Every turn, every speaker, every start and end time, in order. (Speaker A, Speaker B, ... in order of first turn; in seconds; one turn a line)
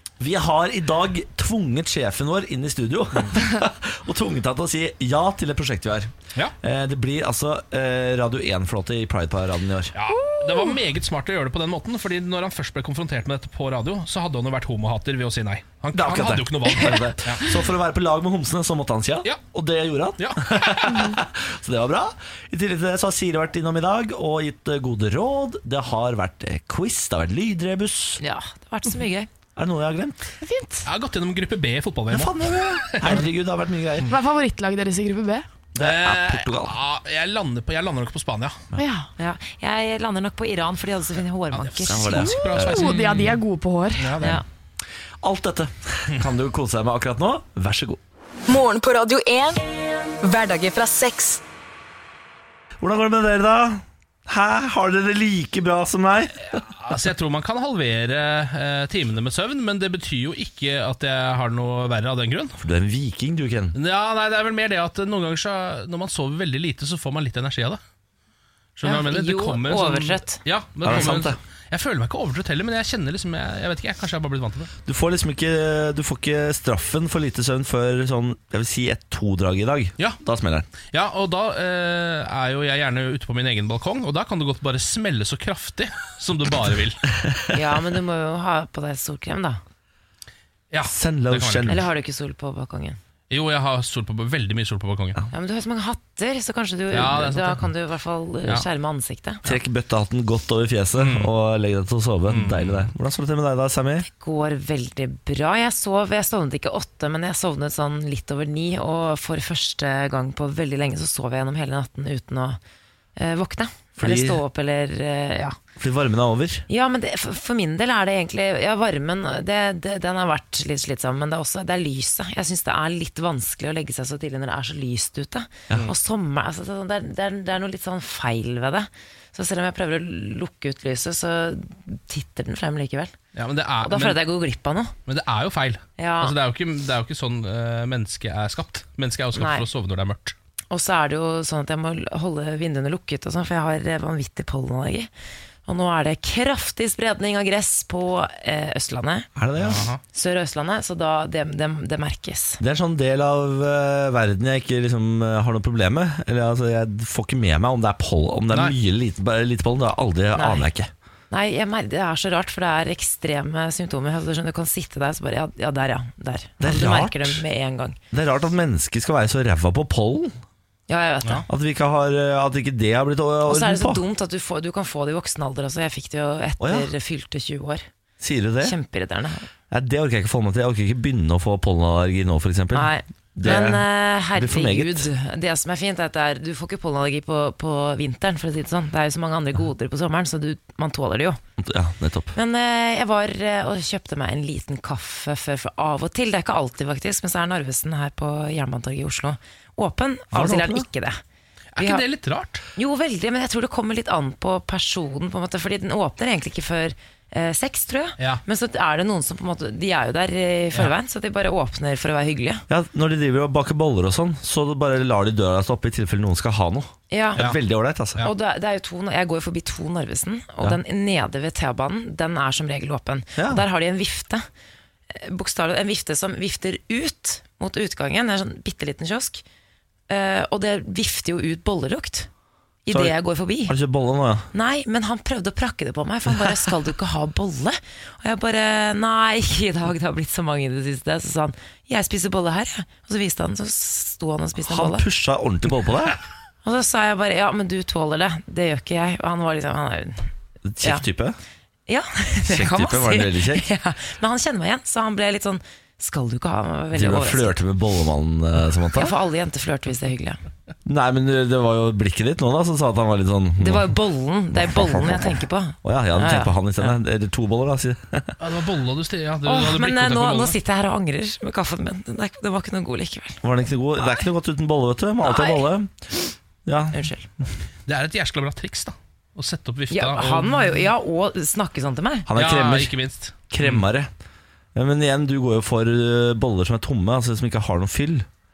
Speaker A: 0.2-9.9
Speaker B: 9.9-17.4
Speaker C: 10.1-10.8
Speaker A: 15.9-28.2
Speaker B: 20.2-21.1
Speaker D: 28.2-29.3
Speaker A: 29.6-30.2
Speaker C: 30.4-30.9
Speaker B: 30.9-33.3
Speaker A: 32.1-34.1
Speaker C: 34.1-35.5
Speaker A: 35.8-36.7
Speaker B: 35.8-38.6
Speaker C: 38.8-39.1
Speaker D: 39.2-42.3
Speaker B: 41.5-43.4
Speaker A: 41.9-42.8
Speaker C: 42.3-44.4
Speaker B: 44.0-44.4
Speaker D: 44.2-44.5
Speaker A: 45.2-48.0
Speaker E: 48.5-49.6
Speaker E: 50.2-51.4
Speaker A: 52.8-56.5
Speaker B: 56.5-62.6
Speaker A: 62.6-63.8
Speaker B: 63.8-67.8
Speaker B: 68.8-74.7
Speaker D: 68.8-71.2
Speaker A: 70.8-71.4
Speaker A: 74.9-80.7
Speaker B: 80.8-87.0
Speaker D: 87.5-89.6
Speaker B: 90.7-91.8
Speaker A: 90.9-91.8
Speaker D: 91.7-93.0
Speaker B: 93.3-95.2
Speaker D: 95.3-99.5
Speaker B: 96.9-97.6
Speaker A: 99.5-104.1
Speaker B: 101.0-101.3
Speaker B: 102.3-102.9
Speaker D: 104.1-112.6
Speaker D: 113.2-115.6
Speaker A: 114.0-114.4
Speaker A: 115.8-116.7
Speaker D: 116.7-133.1
Speaker B: 133.3-134.2
Speaker D: 133.8-134.9
Speaker B: 135.1-140.3
Speaker D: 136.0-136.4
Speaker D: 139.3-139.7
Speaker D: 140.7-145.1
Speaker D: 145.7-149.3
Speaker A: 149.4-149.8
Speaker B: 149.6-150.0
Speaker D: 150.1-152.6
Speaker A: 152.6-160.9
Speaker D: 160.3-160.7
Speaker D: 161.3-168.0
Speaker A: 166.6-167.4
Speaker A: 168.1-170.4
Speaker D: 170.9-171.5
Speaker A: 171.5-174.0
Speaker D: 173.4-177.9
Speaker A: 176.6-176.9
Speaker A: 178.2-178.8
Speaker D: 178.6-179.5
Speaker A: 179.7-185.1
Speaker D: 182.7-191.4
Speaker A: 191.6-192.4
Speaker D: 192.3-201.2
Speaker A: 200.3-200.9
Speaker B: 201.8-202.7
Speaker D: 201.8-202.0
Speaker D: 202.8-212.7
Speaker A: 212.7-218.2
Speaker D: 217.1-217.5
Speaker D: 218.2-224.5
Speaker A: 223.4-223.6
Speaker D: 225.1-229.4
Speaker D: 230.1-232.3
Speaker D: 232.9-233.8
Speaker A: 232.9-234.5
Speaker D: 234.5-245.1
Speaker A: 244.6-246.2
Speaker D: 246.6-250.3
Speaker A: 250.7-251.4
Speaker D: 251.9-257.6
Speaker A: 252.4-253.7
Speaker A: 256.9-259.1
Speaker D: 258.9-260.4
Speaker A: 260.9-263.9
Speaker D: 263.6-266.5
Speaker A: 264.5-268.4
Speaker B: 268.4-270.6
Speaker D: 269.4-273.4
Speaker A: 273.4-275.9
Speaker D: 275.2-275.7
Speaker A: 276.6-277.0
Speaker D: 276.9-277.3
Speaker B: 277.9-280.8
Speaker D: 279.9-282.3
Speaker A: 282.3-282.9
Speaker B: 282.4-283.9
Speaker A: 283.5-284.1
Speaker A: 284.8-288.3